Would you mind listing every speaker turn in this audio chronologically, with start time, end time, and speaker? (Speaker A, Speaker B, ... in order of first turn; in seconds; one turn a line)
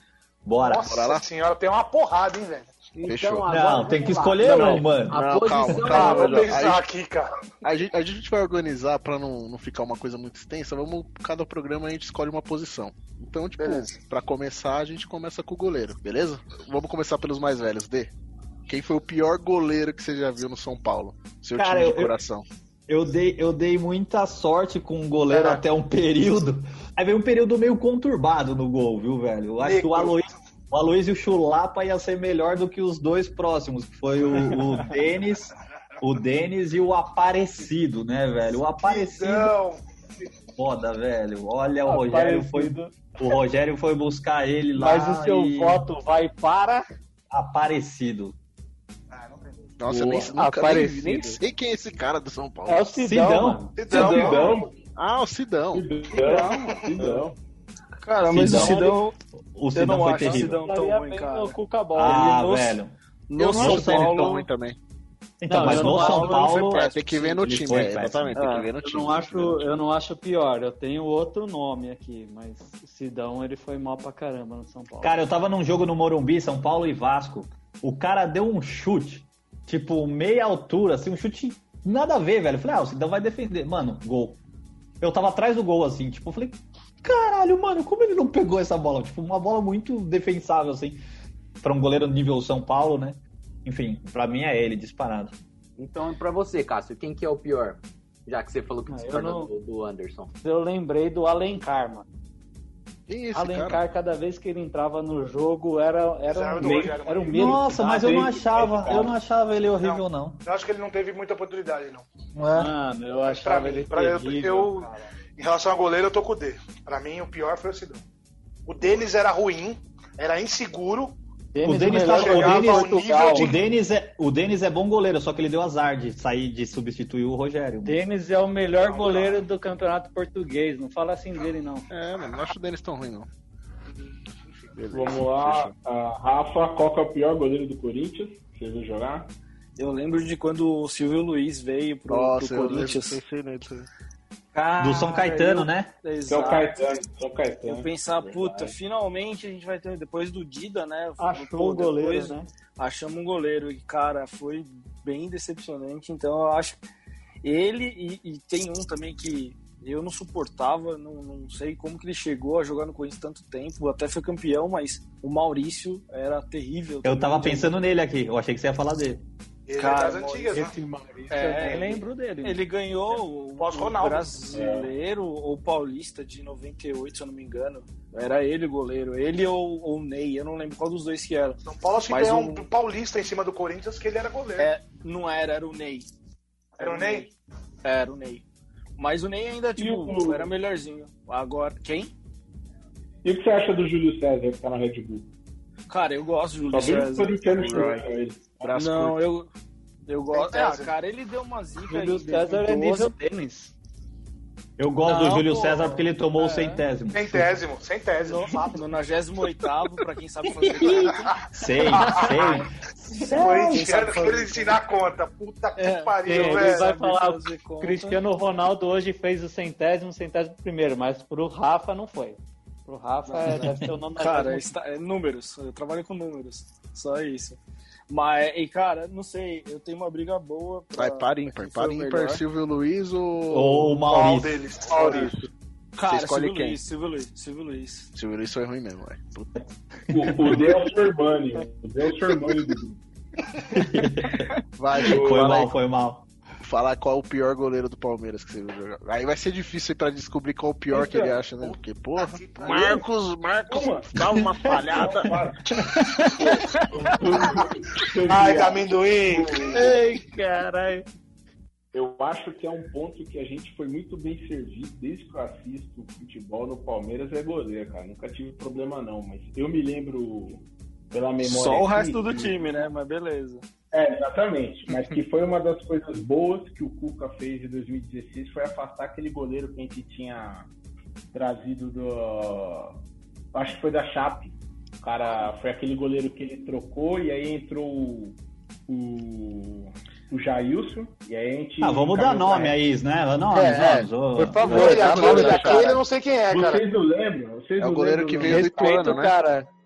Speaker A: 0.5-1.0
Speaker B: 0.6-2.7
Speaker C: 0.8-1.2
Speaker D: 3.0-6.6
Speaker C: 3.0-3.5
Speaker A: 3.5-5.3
Speaker C: 4.4-6.8
Speaker B: 5.8-7.3
Speaker C: 7.6-18.1
Speaker C: 18.7-22.5
Speaker A: 21.6-22.1
Speaker A: 22.9-39.5
Speaker B: 25.3-25.6
Speaker B: 29.6-30.2
Speaker B: 38.8-39.8
Speaker A: 40.6-45.9
Speaker E: 41.9-43.0
Speaker E: 44.8-46.9
Speaker A: 47.3-48.4
Speaker B: 49.1-49.5
Speaker C: 49.8-52.9
Speaker F: 49.9-50.2
Speaker E: 50.2-51.4
Speaker E: 52.7-53.8
Speaker A: 53.0-53.7
Speaker B: 53.8-54.6
Speaker F: 53.9-54.7
Speaker G: 53.9-54.2
Speaker C: 55.0-55.9
Speaker F: 55.7-57.4
Speaker G: 58.0-59.1
Speaker A: 58.3-58.9
Speaker E: 58.4-59.0
Speaker A: 59.5-60.6
Speaker G: 59.7-62.7
Speaker E: 60.2-62.7
Speaker A: 61.9-63.0
Speaker G: 63.3-64.5
Speaker C: 63.4-64.8
Speaker A: 63.5-64.3
Speaker A: 65.4-68.4
Speaker E: 65.5-66.8
Speaker G: 65.7-67.4
Speaker C: 66.5-69.8
Speaker G: 68.4-68.6
Speaker E: 68.8-75.2
Speaker A: 75.0-84.4
Speaker A: 85.0-91.0
Speaker A: 91.6-95.4
Speaker D: 95.8-100.3
Speaker E: 98.9-99.5
Speaker E: 100.4-102.1
Speaker C: 103.1-103.8
Speaker E: 103.3-108.2
Speaker B: 106.3-107.4
Speaker F: 106.6-107.0
Speaker A: 107.3-110.4
Speaker F: 107.5-109.2
Speaker B: 109.8-112.0
Speaker A: 112.4-112.7
Speaker E: 112.5-114.9
Speaker B: 113.3-118.0
Speaker B: 118.7-121.2
Speaker E: 121.5-123.6
Speaker A: 121.6-128.0
Speaker B: 121.8-123.6
Speaker E: 127.8-131.9
Speaker F: 128.8-129.4
Speaker C: 131.9-133.3
Speaker C: 134.8-135.7
Speaker F: 134.9-139.3
Speaker G: 139.8-143.2
Speaker C: 142.1-143.8
Speaker E: 144.6-145.7
Speaker A: 144.8-145.9
Speaker G: 145.1-146.8
Speaker F: 146.3-148.8
Speaker G: 147.6-156.8
Speaker E: 151.2-152.5
Speaker G: 157.4-167.8
Speaker A: 167.0-169.2
Speaker B: 169.7-170.8
Speaker G: 169.8-170.6
Speaker E: 170.5-172.6
Speaker G: 171.3-182.7
Speaker B: 173.6-174.4
Speaker F: 174.5-174.9
Speaker B: 181.6-184.7
Speaker G: 184.6-186.1
Speaker B: 186.8-187.3
Speaker G: 186.8-187.3
Speaker F: 186.9-187.2
Speaker G: 187.8-188.4
Speaker G: 189.0-192.1
Speaker F: 189.8-190.5
Speaker F: 193.2-195.3
Speaker G: 195.9-197.4
Speaker F: 196.7-198.7
Speaker C: 197.5-198.1
Speaker C: 198.6-199.2
Speaker G: 198.7-199.5
Speaker G: 200.1-203.1
Speaker B: 200.3-200.9
Speaker E: 201.9-203.8
Speaker A: 204.8-207.6
Speaker G: 205.0-206.8
Speaker B: 207.1-208.9
Speaker G: 208.2-211.3
Speaker A: 211.5-214.1
Speaker B: 211.9-216.9
Speaker G: 212.2-212.6
Speaker E: 213.6-214.7
Speaker G: 215.8-218.2
Speaker E: 216.2-224.7
Speaker G: 223.3-227.6
Speaker A: 223.5-223.8
Speaker G: 228.1-232.4
Speaker C: 231.0-234.0
Speaker A: 233.5-234.6
Speaker B: 234.1-235.4
Speaker G: 236.0-238.1
Speaker C: 236.0-236.8
Speaker C: 238.1-239.5
Speaker A: 239.6-240.8
Speaker F: 240.1-243.0
Speaker A: 243.7-246.3
Speaker C: 244.8-245.7
Speaker F: 245.0-245.7
Speaker C: 246.6-255.3
Speaker F: 250.9-251.5
Speaker B: 251.7-253.0
Speaker F: 252.6-253.0
Speaker F: 253.7-254.1
Speaker F: 254.8-255.7
Speaker F: 256.9-260.0
Speaker B: 258.2-259.6
Speaker E: 259.7-261.1
Speaker F: 261.9-272.6
Speaker G: 271.4-273.6
Speaker F: 273.9-280.7
Speaker F: 281.3-283.0
Speaker F: 283.5-288.4
Speaker F: 288.9-292.8
Speaker A: 291.8-294.7
Speaker E: 293.5-296.0
Speaker C: 294.6-296.0
Speaker B: 294.7-296.9
Speaker F: 296.5-299.2
Speaker C: 297.8-299.4
Speaker E: 298.4-299.7